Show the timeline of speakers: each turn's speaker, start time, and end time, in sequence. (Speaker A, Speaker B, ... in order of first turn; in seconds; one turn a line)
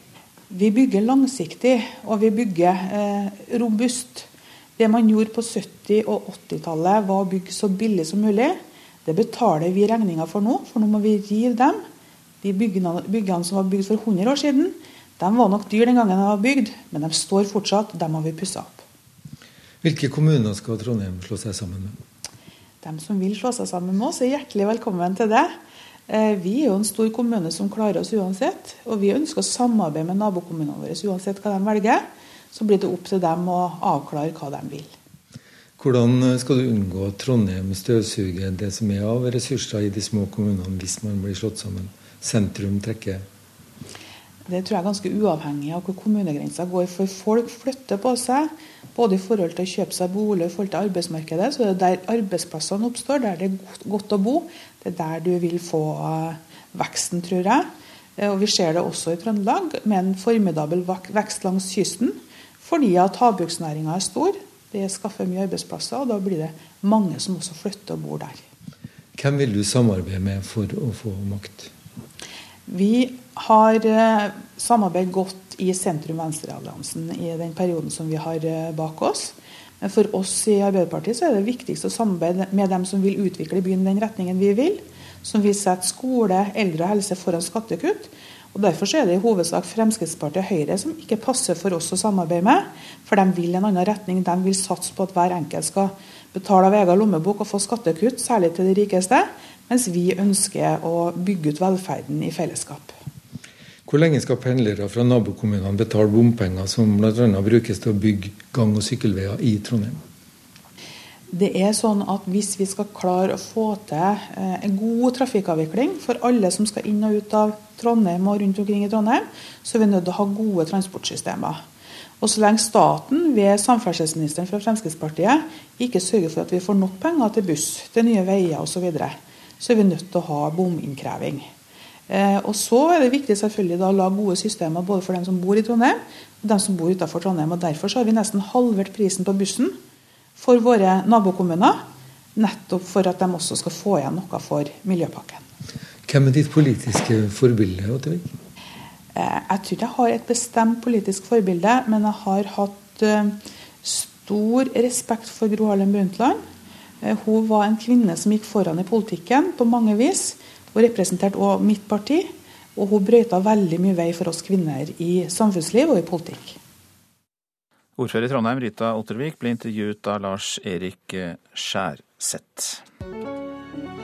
Speaker A: 0.5-11.8
Speaker A: 12.4-18.8
Speaker B: 19.8-22.0
Speaker A: 22.8-25.5
Speaker A: 26.1-32.0
Speaker A: 32.5-34.9
Speaker B: 35.8-43.2
Speaker A: 44.5-68.4
Speaker B: 69.2-71.7
Speaker A: 72.7-102.9
Speaker B: 103.9-110.0
Speaker A: 111.3-121.6
Speaker A: 122.2-131.5
Speaker A: 132.1-139.7
Speaker A: 140.3-141.8
Speaker A: 142.3-145.4
Speaker B: 146.1-148.3
Speaker A: 149.1-156.4
Speaker A: 157.0-166.6
Speaker C: 168.0-172.8